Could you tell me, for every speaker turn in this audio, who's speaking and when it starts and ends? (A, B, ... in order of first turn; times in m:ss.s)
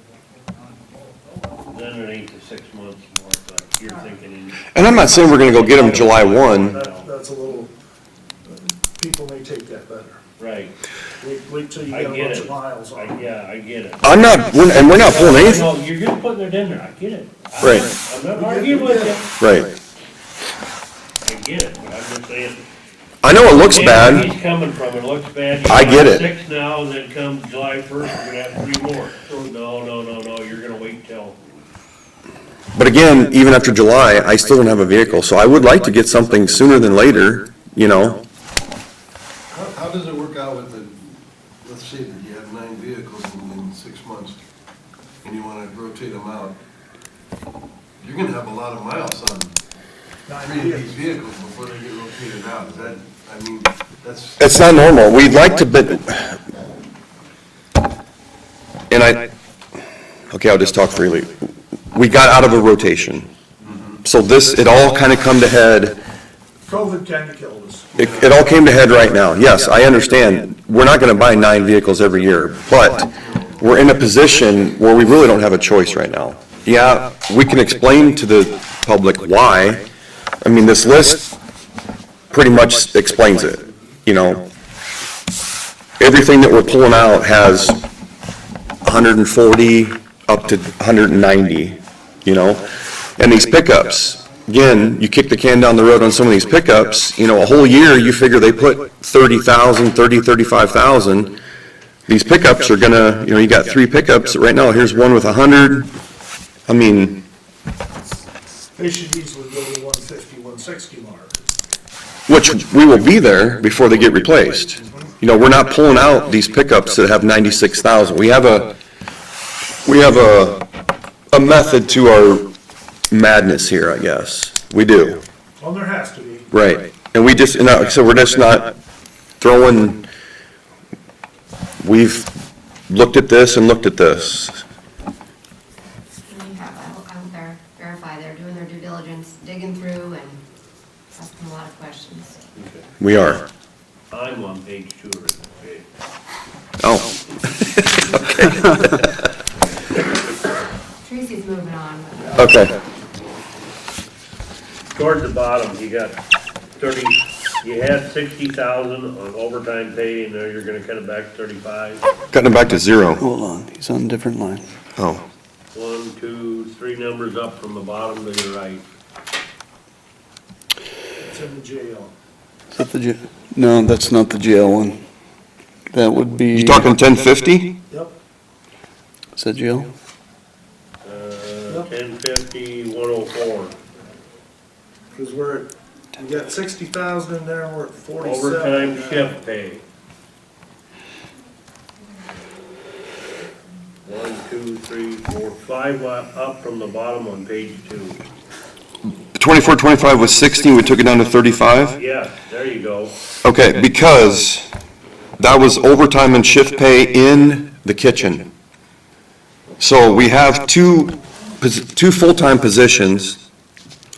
0:01.6-0:07.1 A
0:04.7-0:06.8 B
0:06.7-0:07.7 C
0:08.4-0:10.2 C
0:10.4-0:10.7 A
0:11.2-0:13.2 C
0:11.9-0:19.3 A
0:14.0-0:15.7 B
0:17.6-0:17.9 B
0:18.3-0:19.2 C
0:19.4-0:19.7 B
0:21.2-0:22.6 A
0:23.2-0:24.3 B
0:23.6-0:31.4 A
0:25.7-0:26.3 B
0:32.7-0:38.2 B
0:39.5-0:44.4 D
0:45.2-0:46.6 D
0:48.0-0:49.5 D
0:50.3-0:50.9 C
0:50.4-0:54.5 D
0:54.4-0:56.4 B
0:58.9-0:59.3 B
1:00.3-1:01.4 B
1:01.9-1:03.3 B
1:03.6-1:04.0 D
1:04.0-1:06.0 B
1:06.6-1:08.1 C
1:08.0-1:19.8 B
1:08.0-1:08.3 D
1:13.0-1:13.7 D
1:20.4-1:21.3 B
1:22.3-1:24.4 B
1:26.0-1:27.8 B
1:28.8-1:41.4 B
1:42.1-1:45.9 B
1:46.7-1:47.2 B
1:48.8-1:51.4 C
1:52.3-1:58.7 B
1:54.7-1:55.1 C
1:59.8-2:00.6 B
2:01.3-2:02.4 B
2:03.1-2:05.2 B
2:05.6-2:06.5 C
2:06.5-2:08.7 B
2:09.4-2:10.0 B
2:11.8-2:12.3 B
2:12.9-2:14.6 B
2:16.2-2:20.4 E
2:21.1-2:22.4 E
2:22.6-2:22.8 A
2:23.0-2:23.4 B
2:24.1-2:25.8 A
2:26.8-2:29.1 B
2:31.0-2:32.5 E
2:32.4-2:32.8 B
2:34.9-2:36.2 A
2:36.8-2:42.0 A
2:42.3-2:43.2 B
2:43.2-2:44.6 F
2:45.0-2:45.2 B
2:45.7-2:48.8 A
2:51.2-2:52.1 C
2:52.7-2:55.0 F
2:55.9-2:56.9 F
2:56.5-2:57.7 B
2:59.4-2:59.9 F
3:01.0-3:03.7 A
3:05.1-3:09.3 C
3:08.2-3:09.8 A
3:14.0-3:18.2 A
3:19.3-3:22.0 B
3:22.0-3:23.2 A
3:23.4-3:24.7 B
3:25.4-3:28.4 B
3:29.8-3:33.4 B